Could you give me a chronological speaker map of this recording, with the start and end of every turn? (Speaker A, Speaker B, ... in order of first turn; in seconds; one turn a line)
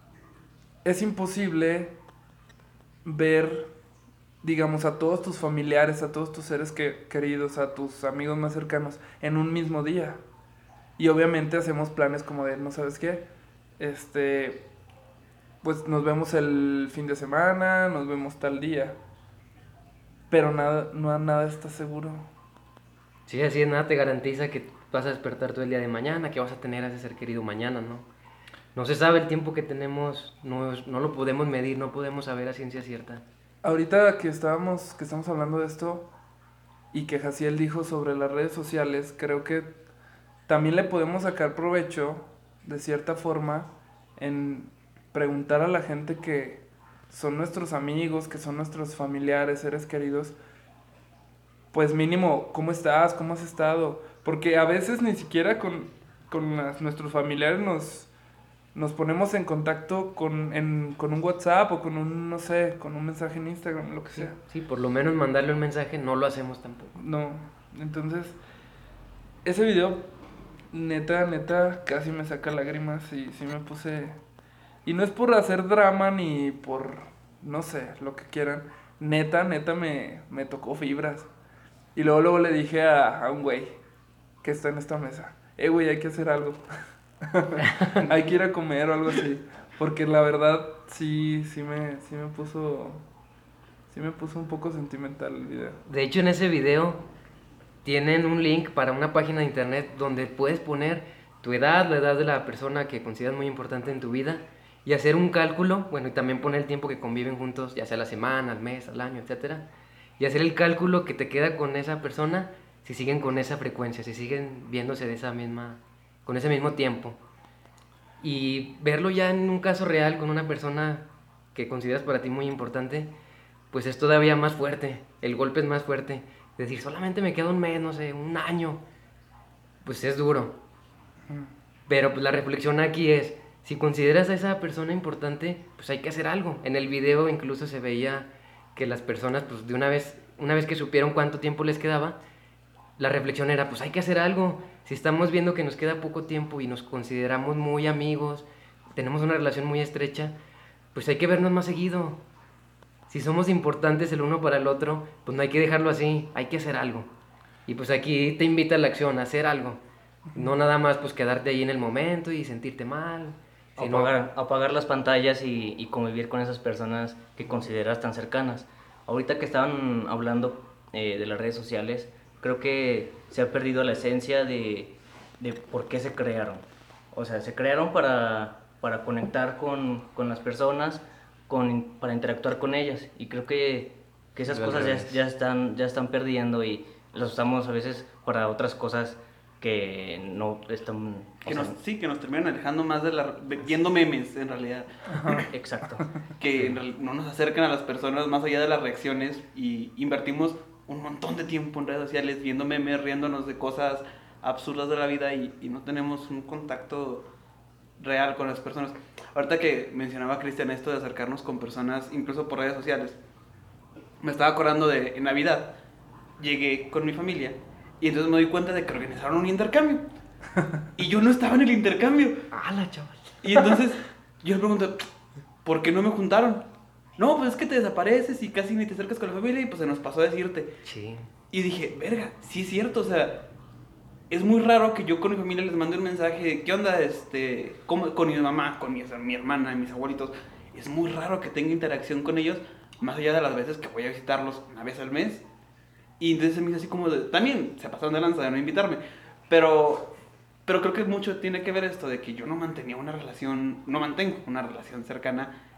Speaker A: 0.8-1.9
Speaker A: 3.0-3.7
Speaker A: 4.4-10.2
Speaker A: 11.0-13.2
Speaker A: 13.8-14.6
Speaker A: 15.6-19.0
Speaker A: 20.3-22.3
Speaker B: 23.3-28.1
Speaker B: 28.7-33.2
Speaker A: 33.6-36.1
Speaker A: 36.9-39.7
Speaker A: 40.5-50.3
Speaker A: 51.7-58.1
Speaker A: 58.7-64.4
Speaker B: 64.2-66.9
Speaker A: 66.9-68.4
Speaker A: 69.4-70.1
Speaker A: 70.7-74.2
Speaker A: 74.8-81.3
Speaker A: 81.9-83.8
Speaker A: 84.4-86.6
Speaker A: 87.2-93.0
Speaker B: 87.8-88.1
Speaker A: 93.9-95.8
Speaker B: 95.8-97.0
Speaker B: 97.8-109.7
Speaker B: 110.2-117.2
Speaker B: 118.2-123.1
Speaker B: 123.7-128.8
Speaker B: 129.8-130.5
Speaker B: 131.9-142.2
Speaker B: 143.0-150.3
Speaker B: 150.9-152.2
Speaker B: 153.1-157.1
Speaker B: 157.7-159.8
Speaker B: 160.3-164.1
Speaker C: 163.8-191.7
Speaker B: 184.5-185.2
Speaker D: 191.4-195.4
Speaker A: 195.1-195.4
Speaker C: 195.3-196.8
Speaker D: 196.4-207.3
Speaker D: 208.0-213.2
Speaker D: 214.2-215.7
Speaker D: 216.4-220.0
Speaker D: 220.9-222.4
Speaker B: 222.5-223.7
Speaker D: 223.4-225.1
Speaker D: 225.6-230.7
Speaker B: 230.8-231.3
Speaker D: 231.5-233.4
Speaker D: 234.3-245.4
Speaker D: 246.2-250.1
Speaker D: 250.7-255.5